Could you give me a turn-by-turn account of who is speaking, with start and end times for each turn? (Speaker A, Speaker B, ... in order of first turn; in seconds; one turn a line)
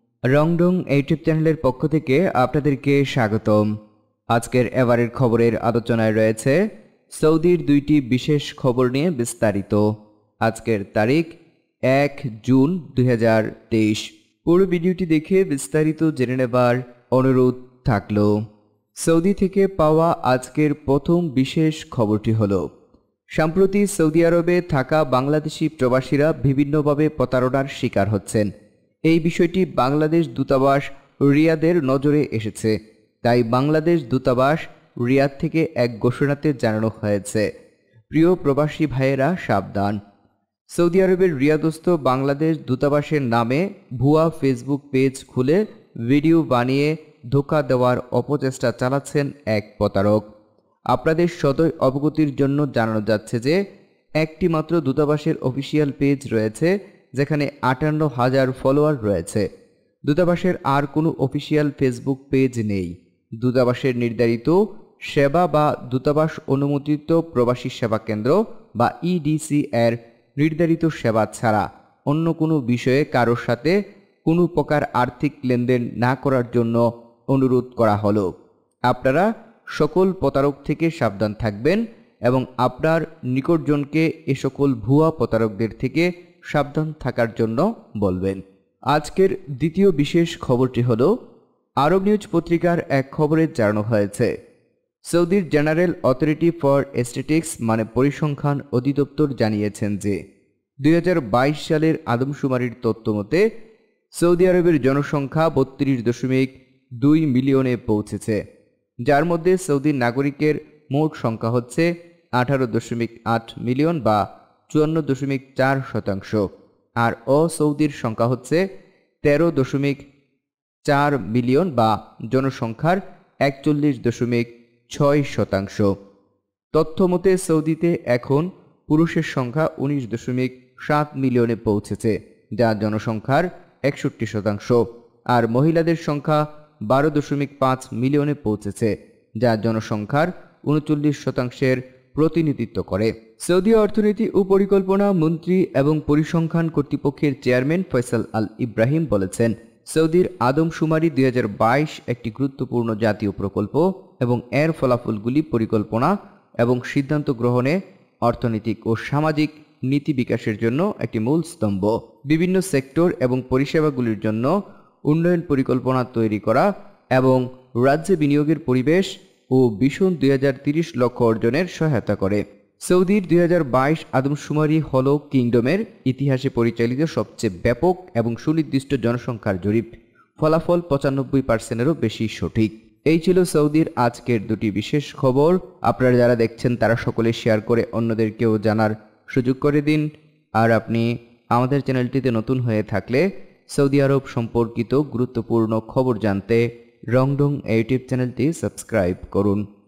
Speaker A: 0.3-3.7
Speaker A: 4.3-6.6
Speaker A: 7.1-9.8
Speaker A: 10.4-11.4
Speaker A: 11.9-18.3
Speaker A: 19.0-22.6
Speaker A: 23.4-28.5
Speaker A: 29.1-37.5
Speaker A: 38.1-40.0
Speaker A: 40.7-50.2
Speaker A: 50.9-53.5
Speaker A: 54.2-59.4
Speaker A: 60.1-64.5
Speaker A: 65.1-73.7
Speaker A: 74.2-78.3
Speaker A: 78.9-88.4
Speaker A: 88.9-91.1
Speaker A: 91.8-94.3
Speaker A: 95.1-100.2
Speaker A: 100.8-103.4
Speaker A: 104.2-108.4
Speaker A: 109.0-116.4
Speaker A: 117.0-118.6
Speaker A: 119.2-120.0
Speaker A: 120.8-125.9
Speaker A: 126.7-134.8
Speaker A: 135.3-164.5
Speaker A: 165.1-190.0
Speaker A: 190.6-199.6